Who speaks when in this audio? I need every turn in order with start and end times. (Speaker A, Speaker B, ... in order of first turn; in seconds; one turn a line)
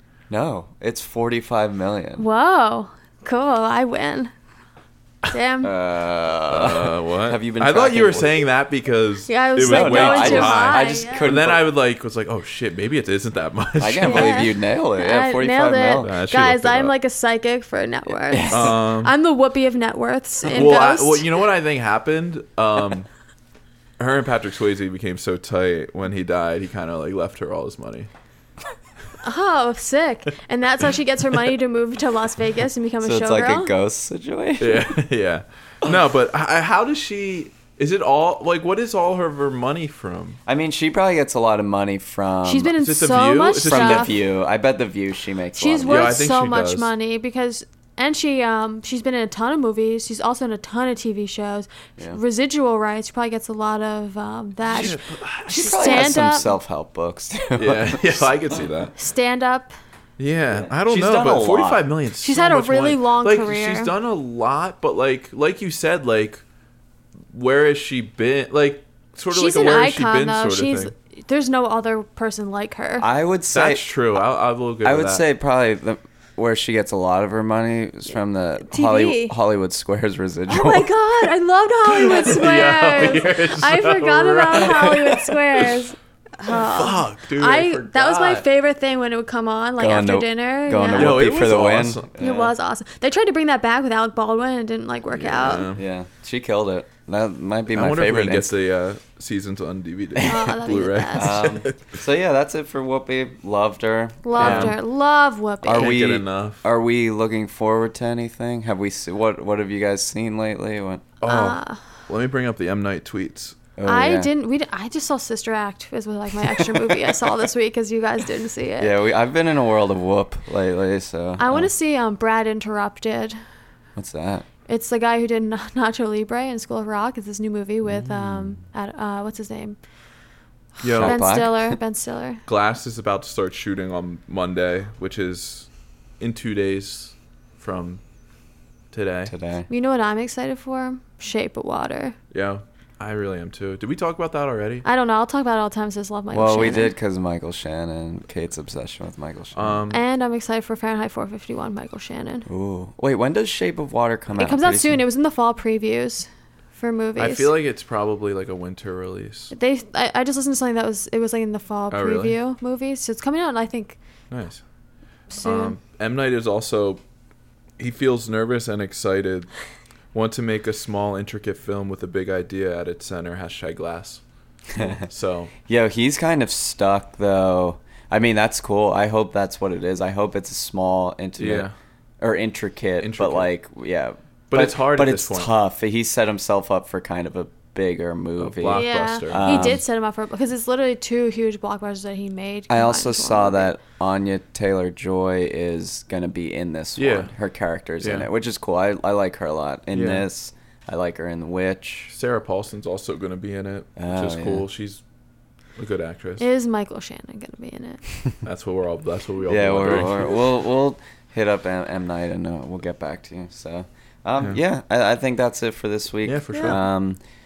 Speaker A: 0.3-2.2
Speaker B: 2.2-4.3
Speaker B: 5.3-5.7
Speaker A: 5.6-8.4
Speaker C: 6.5-14.5
Speaker B: 9.3-11.3
Speaker A: 9.6-11.6
Speaker A: 13.8-16.1
Speaker B: 14.0-21.3
Speaker C: 16.0-16.9
Speaker A: 18.3-18.8
Speaker C: 18.5-19.1
Speaker C: 20.4-23.1
Speaker C: 24.0-28.1
Speaker B: 29.2-33.7
Speaker A: 33.0-35.0
Speaker C: 34.6-40.4
Speaker A: 40.5-42.7
Speaker B: 42.4-44.1
Speaker C: 42.8-44.2
Speaker A: 43.6-46.2
Speaker B: 45.6-56.5
Speaker C: 45.9-46.9
Speaker C: 54.7-56.2
Speaker A: 55.5-58.7
Speaker C: 57.5-58.9
Speaker B: 58.9-59.7
Speaker C: 60.2-66.4
Speaker A: 60.5-61.8
Speaker B: 62.2-63.9
Speaker C: 67.3-70.9
Speaker B: 69.3-73.0
Speaker A: 73.0-73.8
Speaker C: 73.5-75.2
Speaker A: 74.8-80.9
Speaker B: 78.6-79.3
Speaker B: 80.5-91.2
Speaker C: 81.8-85.8
Speaker C: 86.5-88.4
Speaker A: 89.8-92.5
Speaker C: 90.9-92.1
Speaker B: 92.2-95.7
Speaker C: 95.1-95.8
Speaker A: 95.7-98.5
Speaker C: 97.7-101.9
Speaker A: 100.2-100.5
Speaker B: 100.2-101.4
Speaker A: 101.1-104.8
Speaker B: 104.2-105.9
Speaker C: 104.4-104.8
Speaker A: 105.6-111.1
Speaker C: 105.7-106.6
Speaker C: 111.2-113.6
Speaker B: 111.2-111.8
Speaker A: 113.8-114.3
Speaker B: 113.8-118.9
Speaker A: 116.5-117.1
Speaker A: 118.8-121.7
Speaker B: 121.4-123.4
Speaker A: 124.0-124.5
Speaker B: 124.7-129.8
Speaker A: 127.9-128.6
Speaker C: 130.8-131.2
Speaker A: 130.9-131.8
Speaker B: 130.9-132.4
Speaker C: 132.4-135.7
Speaker C: 136.2-138.0
Speaker C: 138.9-139.3
Speaker A: 139.3-139.7
Speaker B: 139.7-142.2
Speaker C: 142.3-144.8
Speaker B: 144.8-146.9
Speaker A: 146.3-149.8
Speaker C: 149.5-150.0
Speaker B: 149.9-152.5
Speaker A: 152.5-155.0
Speaker B: 154.4-157.5
Speaker C: 157.2-159.5
Speaker B: 159.5-164.0
Speaker C: 161.9-162.3
Speaker C: 164.3-164.6
Speaker B: 165.3-165.8
Speaker C: 165.4-167.0
Speaker C: 167.8-169.5
Speaker C: 170.1-174.2
Speaker A: 174.7-175.0
Speaker C: 174.7-175.5
Speaker A: 175.7-181.7
Speaker C: 181.4-181.7
Speaker A: 182.2-189.8
Speaker C: 183.0-183.5
Speaker C: 184.5-185.5
Speaker C: 188.4-189.8
Speaker B: 188.7-193.7
Speaker A: 192.7-202.1
Speaker C: 197.0-197.3
Speaker C: 198.0-198.3
Speaker C: 199.9-200.2
Speaker C: 202.1-205.0
Speaker A: 204.0-204.6
Speaker C: 205.8-206.4
Speaker B: 206.4-208.0
Speaker C: 208.4-210.4
Speaker A: 209.4-217.2
Speaker C: 216.2-216.8
Speaker B: 216.5-216.8